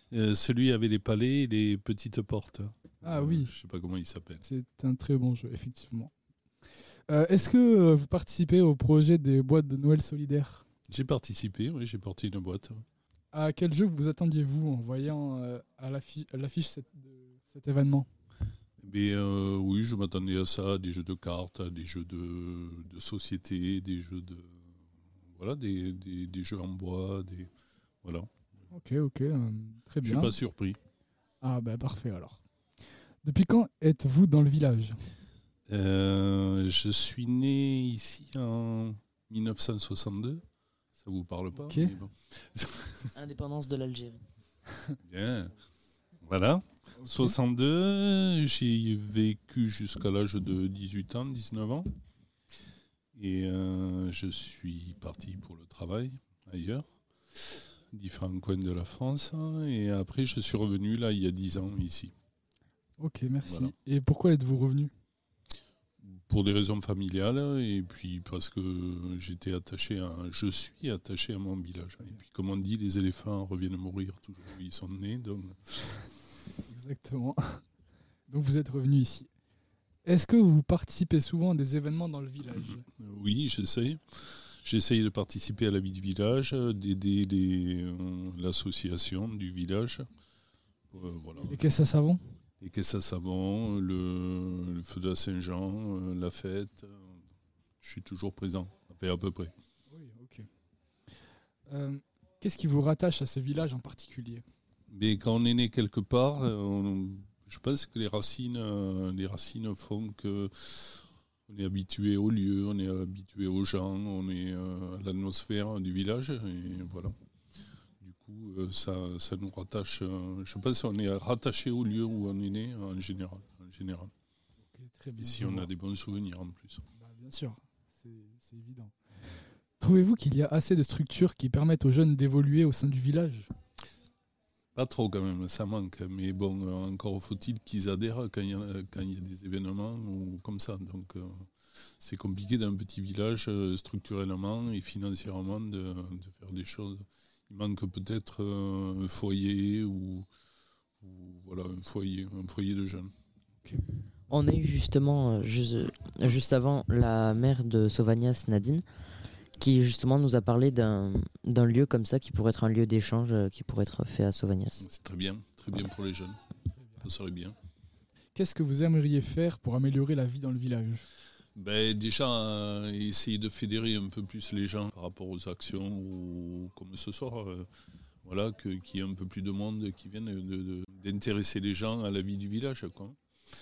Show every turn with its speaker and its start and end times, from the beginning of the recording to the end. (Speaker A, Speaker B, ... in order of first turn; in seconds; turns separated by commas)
Speaker A: 0.1-4.5, Speaker B: 3.0-3.5, Speaker B: 4.4-6.1, Speaker B: 7.1-10.7, Speaker A: 10.9-12.8, Speaker B: 13.3-18.1, Speaker A: 18.8-24.6, Speaker A: 25.3-27.5, Speaker A: 28.0-28.3, Speaker B: 28.7-30.4, Speaker A: 30.0-30.8, Speaker B: 31.4-32.4, Speaker B: 33.2-35.0, Speaker A: 35.7-40.4, Speaker A: 41.0-43.1, Speaker B: 41.5-42.0, Speaker C: 43.1-44.2, Speaker A: 45.0-45.5, Speaker A: 46.2-51.9, Speaker B: 47.0-47.4, Speaker A: 53.1-62.1, Speaker B: 63.0-64.9, Speaker A: 63.5-63.7, Speaker A: 66.0-76.1, Speaker B: 76.7-77.6, Speaker B: 78.3-79.3, Speaker B: 80.0-82.8, Speaker A: 83.0-90.1, Speaker A: 90.9-91.7, Speaker B: 91.4-92.2, Speaker A: 92.6-97.2, Speaker A: 97.8-99.5, Speaker B: 99.9-100.5, Speaker B: 101.7-104.4, Speaker A: 104.9-117.1, Speaker A: 118.0-124.1, Speaker B: 124.7-125.7, Speaker A: 125.2-126.8, Speaker B: 127.0-128.9, Speaker B: 129.8-133.5, Speaker A: 134.8-150.3, Speaker A: 151.0-153.1, Speaker C: 154.3-158.8, Speaker C: 159.6-164.8, Speaker A: 164.8-166.4, Speaker B: 166.7-167.1, Speaker A: 167.0-167.6, Speaker B: 168.3-171.1, Speaker A: 171.6-177.7, Speaker A: 178.2-183.2